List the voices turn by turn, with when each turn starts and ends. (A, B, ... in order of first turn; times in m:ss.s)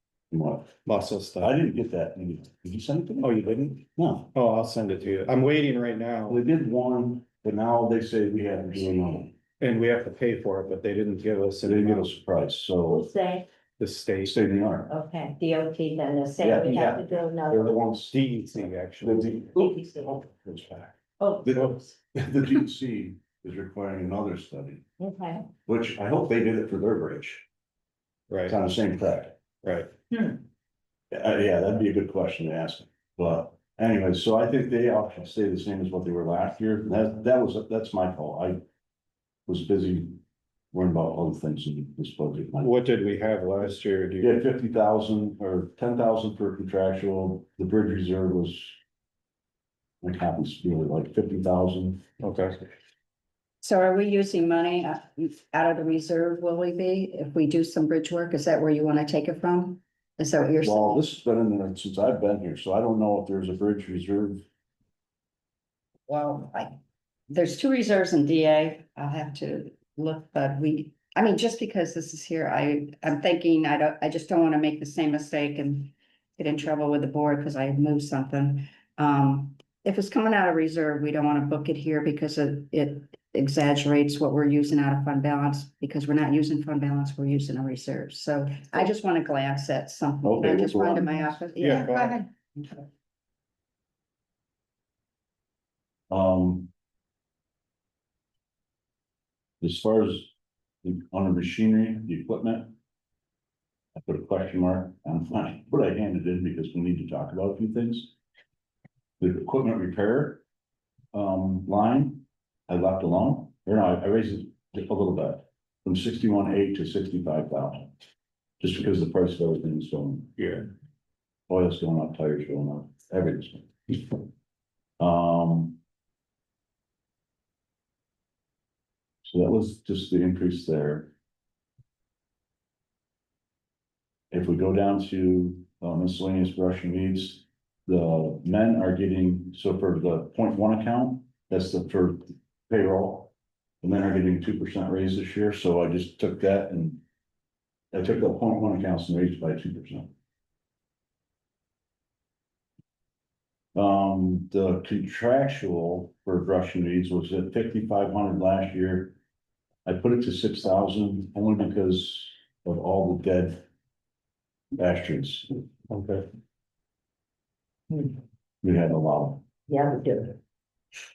0:00.3-0:00.8 A
0:00.8-0:01.6 B
0:01.4-0:04.3 A
0:03.2-0:06.4 B
0:06.3-0:09.4 A
0:09.6-0:12.1 B
0:11.6-0:13.1 A
0:12.9-0:13.5 C
0:13.8-0:14.3 B
0:14.2-0:14.9 A
0:14.9-0:17.8 C
0:16.4-0:24.8 A
0:18.1-0:19.3 B
0:19.4-0:20.1 C
0:21.2-0:21.8 C
0:25.0-0:25.5 C
0:25.7-0:27.4 A
0:28.3-0:28.6 B
0:28.4-0:29.4 A
0:29.6-0:29.9 B
0:30.1-0:30.4 C
0:31.1-0:38.6 A
0:39.5-0:40.2 A
0:40.7-0:42.7 A
0:42.6-0:44.4 B
0:44.2-0:48.8 A
0:50.0-0:52.0 A
0:52.2-0:52.6 B
0:53.6-1:01.0 D
1:00.6-1:04.4 A
1:06.1-1:06.8 D
1:07.3-1:32.8 D
1:30.2-1:31.3 A
1:31.6-1:32.2 B
1:36.1-1:36.7 A
1:39.6-1:42.8 A
1:44.0-1:48.1 A
1:49.2-1:50.4 A
1:51.1-1:57.9 A
1:58.6-2:00.6 A
2:00.4-2:00.7 B
2:01.5-2:04.1 A
2:05.0-2:05.8 A
2:09.2-2:11.1 A
2:14.3-2:27.0 A
2:27.9-2:30.1 A
2:33.7-2:39.2 A
2:39.8-2:43.6 A
2:44.7-2:45.5 A
2:45.9-2:46.3 B
2:47.9-2:48.2 C
2:48.6-2:49.4 A
2:49.7-2:50.4 C